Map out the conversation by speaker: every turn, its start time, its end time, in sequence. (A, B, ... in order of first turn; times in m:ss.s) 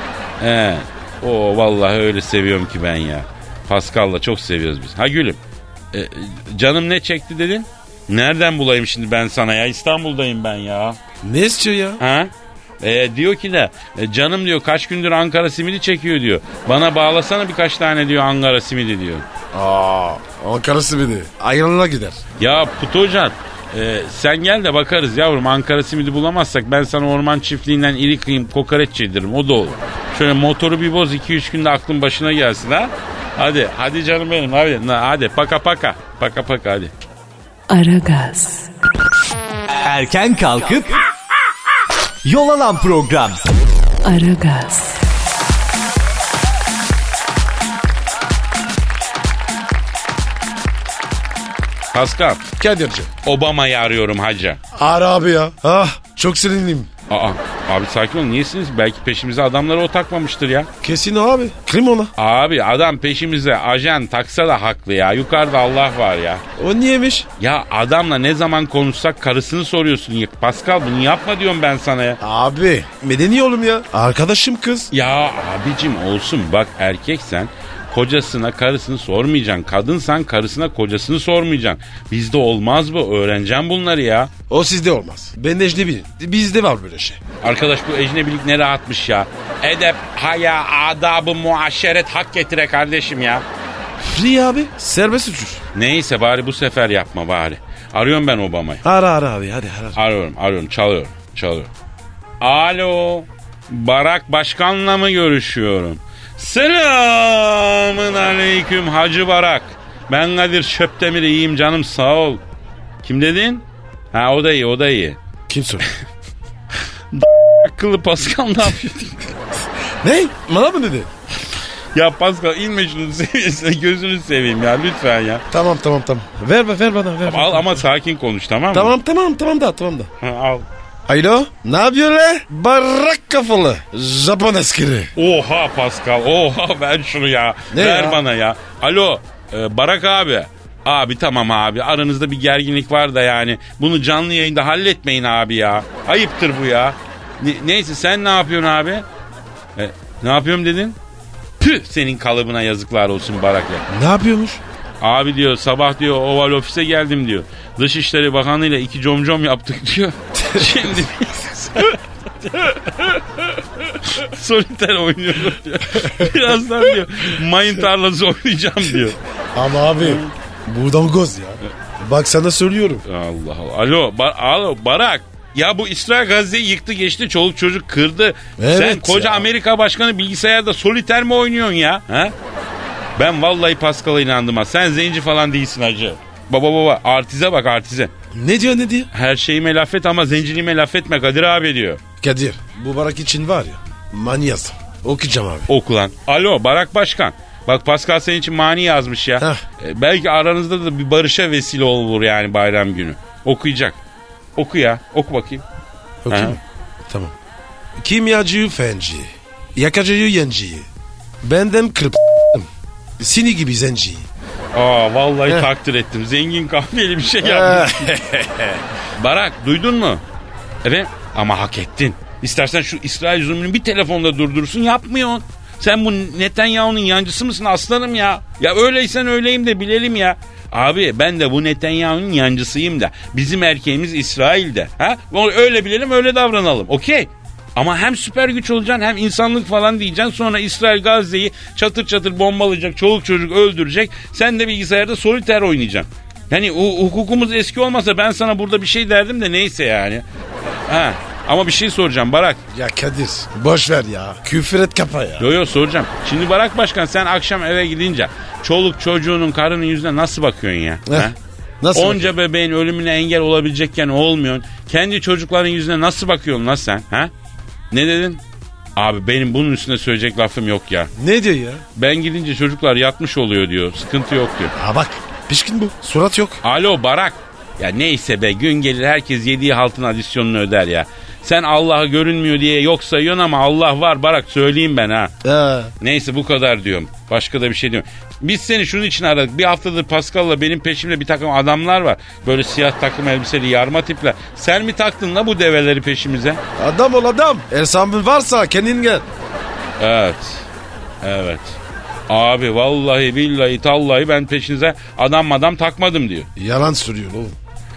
0:00.4-0:05.4 A
0:05.9-0:11.0 A
0:11.2-0:12.0 B
0:12.0-0:19.2 A
0:19.5-0:22.2 B
0:22.4-0:36.9 A
0:37.7-0:38.7 C
0:39.8-0:41.0 D
0:42.2-0:43.4 D
0:44.0-0:45.0 C
0:51.9-0:52.4 A
0:52.5-0:53.1 B
0:53.2-0:54.6 A
0:54.7-0:56.9 B
0:57.1-1:00.7 A
1:00.8-1:02.1 B
1:02.2-1:06.4 A
1:06.6-1:07.3 B
1:07.4-1:12.2 A
1:12.2-1:14.9 B
1:14.9-1:24.3 A
1:24.5-1:27.2 B
1:27.4-1:33.4 A
1:34.0-1:35.6 B
1:35.8-1:38.8 A
1:38.8-1:40.0 B
1:39.9-1:41.7 A
1:42.4-1:52.4 A
1:53.0-1:55.2 A
1:55.5-1:55.9 B
1:57.1-1:59.3 A
2:00.0-2:01.1 B
2:01.9-2:05.4 A
2:05.5-2:07.8 B
2:07.2-2:08.9 A
2:08.7-2:10.1 B
2:10.2-2:10.7 A
2:11.1-2:15.1 B
2:15.2-2:29.0 A
2:17.7-2:18.2 B
2:29.8-2:31.0 A
2:31.6-2:33.8 A
2:33.9-2:34.6 B
2:35.0-2:49.2 A
2:40.3-2:41.1 B
2:49.5-2:53.0 B
2:50.0-2:50.3 A
2:53.1-3:02.3 A
2:58.6-2:59.5 B
3:03.2-3:08.1 A
3:08.3-3:09.1 B
3:09.1-3:12.0 A
3:12.2-3:15.7 B
3:15.7-3:24.0 A
3:24.6-3:25.6 A
3:26.2-3:27.3 B
3:26.3-3:26.6 A
3:28.0-3:30.9 B
3:31.4-3:34.3 B
3:34.7-3:38.1 A
3:37.4-3:38.8 B
3:39.2-3:40.2 A
3:40.8-4:12.6 A
4:12.7-4:15.5 B
4:15.4-4:21.4 A
4:21.1-4:22.3 B
4:21.9-4:27.3 A
4:27.9-4:28.4 A
4:29.0-4:31.1 A
4:31.2-4:31.8 B
4:32.0-4:34.7 A
4:34.8-4:36.6 B
4:36.6-4:45.3 A
4:45.4-4:45.9 B
4:46.0-4:56.6 A
4:56.8-4:59.2 B
5:00.0-5:00.6 A
5:01.2-5:01.8 A
5:02.3-5:06.5 A
5:06.6-5:07.6 B